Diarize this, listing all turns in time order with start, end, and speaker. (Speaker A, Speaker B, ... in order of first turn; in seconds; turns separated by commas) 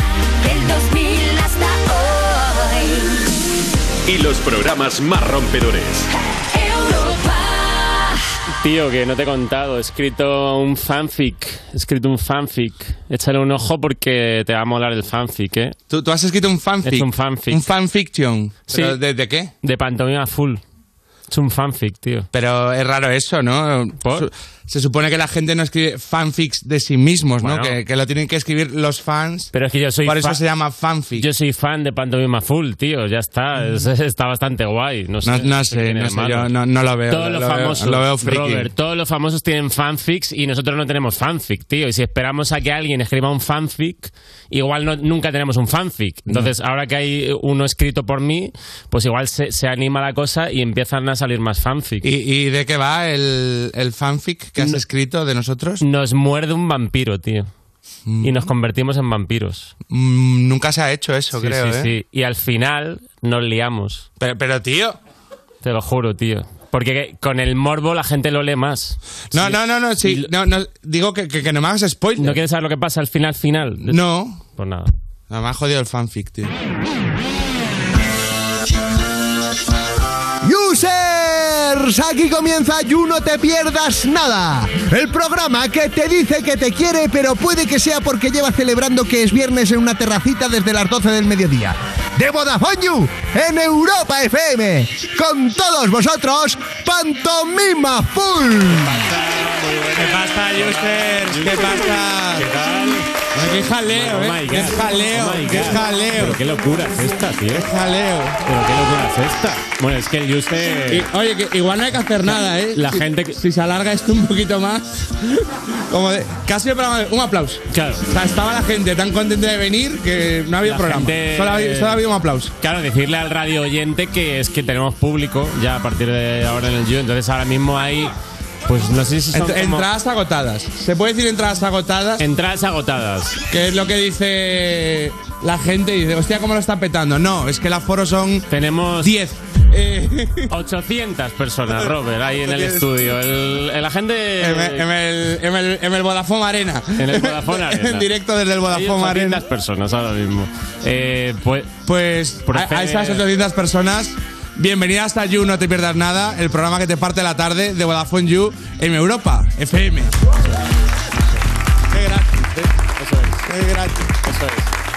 Speaker A: 0.4-2.7, Speaker B: 4.1-6.0, Speaker A: 6.8-7.2, Speaker C: 8.6-15.8, Speaker D: 15.9-19.5, Speaker C: 16.8-17.6, Speaker C: 18.7-19.0, Speaker C: 19.6-20.6, Speaker C: 21.3-22.3, Speaker D: 22.3-29.5, Speaker C: 24.0-24.3, Speaker C: 27.4-27.8, Speaker C: 29.5-30.4, Speaker D: 30.0-31.2, Speaker C: 31.2-36.5, Speaker D: 35.2-38.7, Speaker C: 37.1-52.1, Speaker D: 52.0-55.8, Speaker C: 55.8-57.5, Speaker D: 58.0-58.4, Speaker C: 58.2-59.7, Speaker D: 59.9-61.9, Speaker C: 61.4-64.1, Speaker D: 64.2-65.0, Speaker C: 65.6-70.3, Speaker D: 69.3-72.4, Speaker C: 72.2-74.0, Speaker D: 73.8-74.4, Speaker C: 74.5-74.9, Speaker D: 75.3-76.5, Speaker E: 80.4-98.9, Speaker C: 98.7-103.1, Speaker D: 100.0-102.4, Speaker D: 103.3-106.4, Speaker C: 103.9-107.7, Speaker D: 107.5-108.4, Speaker C: 108.4-111.0, Speaker D: 110.9-122.5, Speaker C: 112.3-113.4, Speaker C: 117.7-118.0, Speaker C: 120.6-122.0, Speaker C: 122.6-128.1, Speaker C: 128.7-129.8, Speaker D: 129.3-132.2, Speaker C: 132.2-133.4, Speaker D: 133.5-138.5, Speaker C: 138.5-139.1, Speaker D: 139.0-140.5, Speaker C: 140.5-144.8, Speaker D: 142.5-142.8, Speaker D: 144.4-149.4, Speaker C: 147.0-148.1, Speaker C: 148.7-151.8, Speaker D: 151.8-160.1, Speaker C: 152.4-153.2, Speaker D: 161.9-162.7, Speaker C: 163.0-163.4, Speaker D: 163.4-164.1, Speaker C: 164.2-164.7